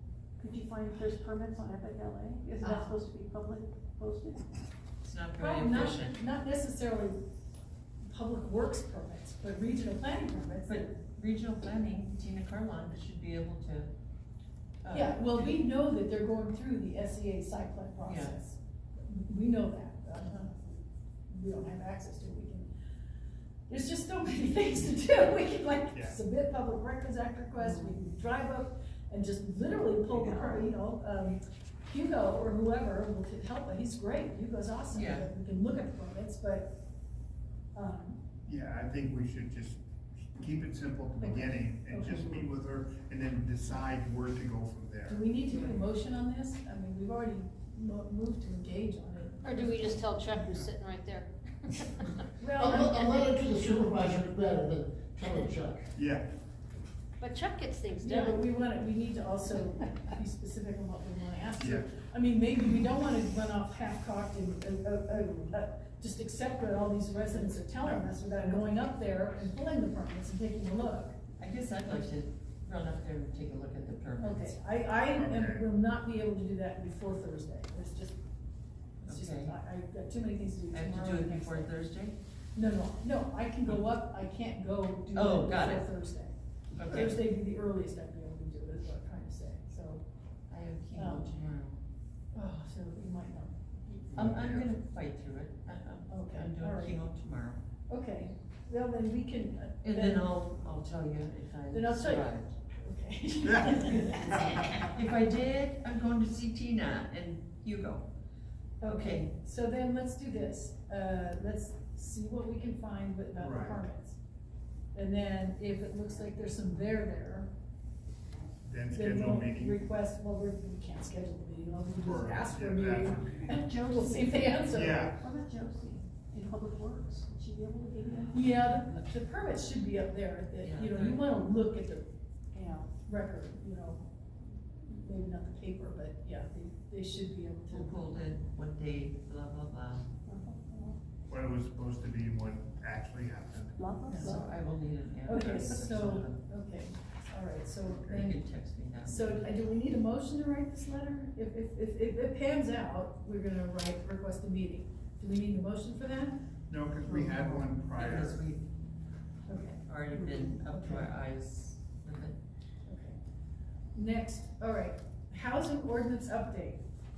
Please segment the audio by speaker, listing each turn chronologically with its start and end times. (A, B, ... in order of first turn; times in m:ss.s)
0:00.4-0:04.5 A
0:02.6-0:03.0 B
0:05.0-0:06.2 C
0:05.4-0:07.2 B
0:08.1-0:10.9 B
0:10.7-0:13.9 C
0:14.8-0:15.6 C
0:14.9-0:20.5 B
0:18.0-0:18.3 C
0:21.3-0:22.7 B
0:23.7-0:36.7 B
0:25.9-0:26.2 D
0:27.6-0:28.0 A
0:30.1-0:30.6 A
0:34.9-0:35.3 C
0:37.7-0:38.2 B
0:38.4-0:45.2 D
0:41.2-0:42.4 B
0:45.1-0:50.1 B
0:49.4-0:52.0 E
0:52.4-0:53.2 B
0:52.6-0:55.9 F
0:55.9-0:56.3 D
0:57.2-0:58.4 E
0:58.0-1:11.2 B
1:01.6-1:01.9 D
1:11.4-1:14.6 C
1:14.2-1:18.2 B
1:15.1-1:15.6 D
1:19.0-1:21.7 B
1:19.0-1:19.5 C
1:20.7-1:22.2 C
1:22.5-1:26.4 B
1:25.1-1:25.9 C
1:26.8-1:27.2 C
1:26.9-1:30.0 B
1:30.5-1:31.8 C
1:30.9-1:31.3 B
1:32.3-1:34.4 B
1:34.1-1:34.7 D
1:34.2-1:37.6 C
1:36.1-1:37.0 B
1:37.9-1:40.3 B
1:39.8-1:42.5 C
1:41.7-1:44.8 B
1:43.4-1:44.6 D
1:44.5-1:48.0 C
1:48.8-1:54.2 B
1:48.8-1:49.3 C
1:53.4-1:53.9 D
1:54.9-1:57.5 B
1:58.6-1:59.8 D
1:58.9-2:05.0 B
2:02.0-2:03.6 D
2:03.5-2:08.4 A
2:04.7-2:05.2 D
2:08.3-2:12.0 B
2:10.6-2:11.2 C
2:12.5-2:12.9 A
2:13.0-2:14.1 B
2:14.8-2:18.2 B
2:17.7-2:20.0 C
2:20.3-2:21.0 A
2:21.3-2:23.8 D
2:23.8-2:24.5 A
2:24.1-2:24.4 B
2:24.1-2:26.4 C
2:25.3-2:28.4 B
2:27.9-2:28.2 D
2:28.1-2:29.5 C
2:29.0-2:36.4 B
2:36.7-2:38.4 D
2:37.0-2:37.6 B
2:38.0-2:38.6 C
2:39.5-2:41.1 B
2:39.8-2:42.4 C
2:42.8-2:43.2 B
2:43.9-2:46.8 B